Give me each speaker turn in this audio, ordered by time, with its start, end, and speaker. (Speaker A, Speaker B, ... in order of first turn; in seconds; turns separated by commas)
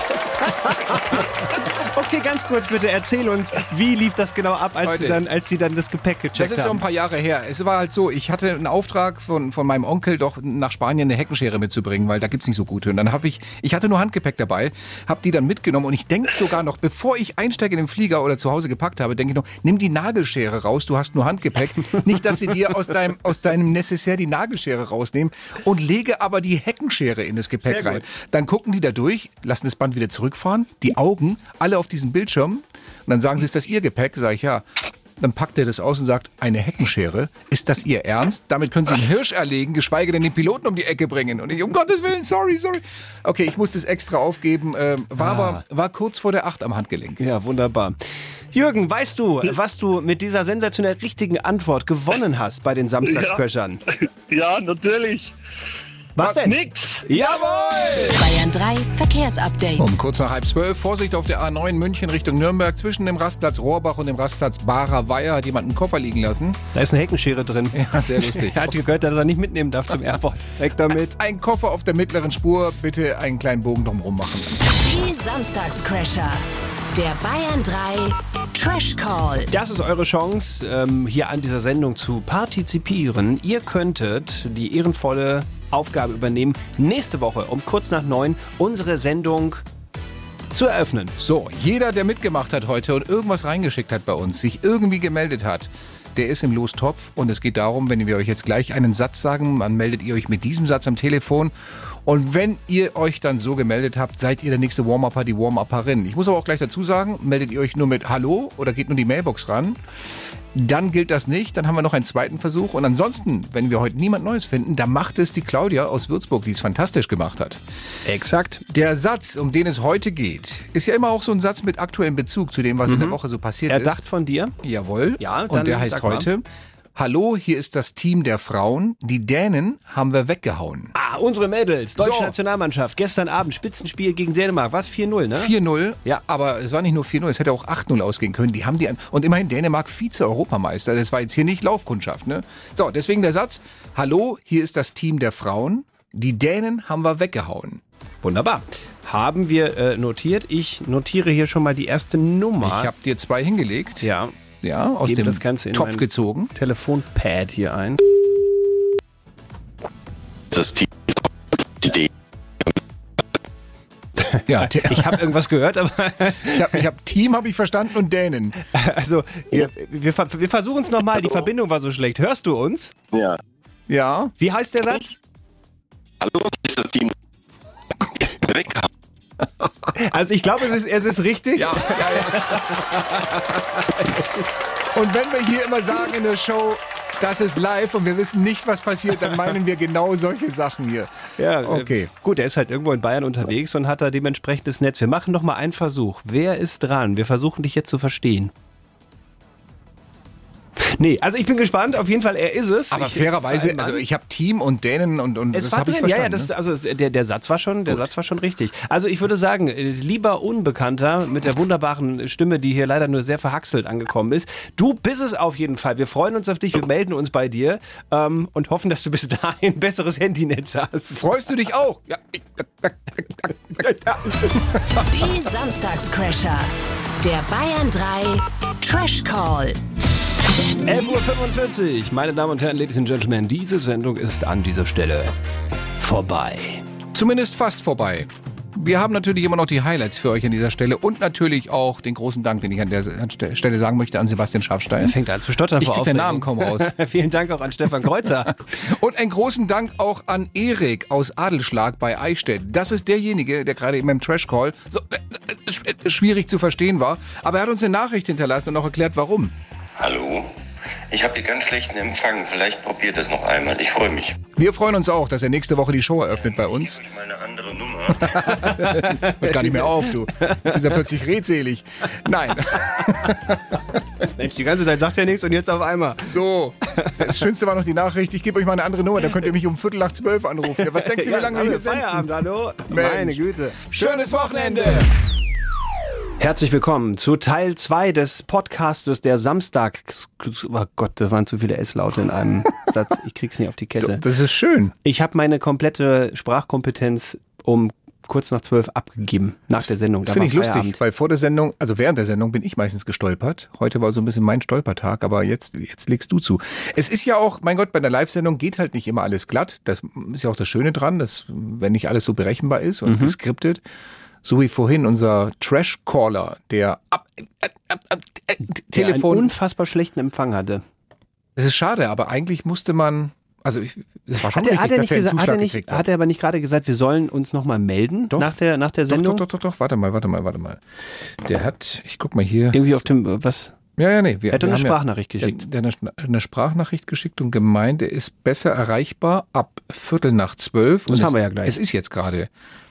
Speaker A: 0.4-6.8, Speaker B: 4.8-5.2, Speaker B: 6.3-34.6, Speaker A: 27.6-28.1, Speaker B: 35.2-47.2, Speaker A: 45.2-45.6, Speaker A: 47.2-48.0, Speaker A: 48.5-53.8, Speaker C: 53.0-53.4, Speaker C: 54.3-55.3, Speaker A: 56.1-58.0, Speaker C: 56.4-57.1, Speaker B: 57.1-58.2, Speaker D: 58.1-60.0, Speaker B: 59.8-66.6, Speaker A: 66.7-71.2, Speaker B: 67.7-68.8, Speaker B: 71.1-74.6, Speaker D: 74.6-79.5, Speaker A: 79.5-89.6, Speaker A: 90.5-91.1, Speaker B: 91.2-101.5, Speaker B: 102.0-109.8, Speaker B: 110.5-117.6, Speaker A: 118.0-118.6, Speaker B: 118.7-124.0, Speaker A: 122.9-124.5, Speaker B: 124.6-130.9, Speaker A: 125.2-126.3, Speaker A: 130.9-135.5, Speaker B: 132.0-132.3, Speaker B: 135.3-147.8, Speaker A: 148.2-152.9, Speaker B: 152.6-154.1, Speaker A: 154.0-154.3, Speaker B: 154.6-156.5, Speaker A: 155.0-158.0, Speaker E: 160.5-161.2, Speaker E: 161.8-162.1, Speaker A: 164.2-166.8, Speaker B: 164.5-165.3, Speaker B: 166.4-168.6, Speaker A: 168.7-172.9, Speaker E: 173.1-173.4, Speaker B: 173.9-174.3, Speaker A: 174.4-175.2, Speaker E: 176.2-177.1, Speaker E: 178.4-178.9, Speaker A: 179.9-184.4, Speaker B: 181.6-182.8, Speaker B: 184.9-191.1, Speaker A: 191.4-198.5, Speaker B: 191.6-192.1, Speaker A: 200.8-204.0, Speaker B: 202.9-206.5, Speaker A: 205.5-221.2, Speaker B: 221.1-223.8, Speaker A: 223.8-224.5, Speaker D: 225.1-229.8, Speaker A: 230.8-235.3, Speaker A: 236.0-236.8, Speaker B: 237.1-245.2, Speaker A: 245.0-248.5, Speaker B: 245.8-246.9, Speaker B: 248.4-259.5, Speaker E: 260.0-260.5, Speaker E: 261.1-264.4, Speaker B: 264.6-267.0, Speaker E: 266.9-268.4, Speaker A: 268.4-270.9, Speaker B: 268.5-274.0, Speaker A: 274.3-276.3, Speaker B: 276.2-282.3, Speaker A: 280.7-284.9, Speaker B: 282.9-285.1, Speaker A: 286.4-294.2, Speaker B: 294.0-294.9, Speaker A: 295.0-301.0, Speaker B: 300.2-313.8, Speaker A: 313.1-313.3, Speaker B: 314.4-319.5, Speaker A: 318.9-320.8, Speaker B: 321.6-326.0, Speaker A: 324.4-329.4, Speaker B: 328.3-328.6, Speaker B: 329.1-330.8, Speaker B: 331.4-332.9, Speaker A: 332.7-333.8, Speaker B: 334.0-342.5, Speaker A: 334.5-335.6, Speaker A: 341.1-341.8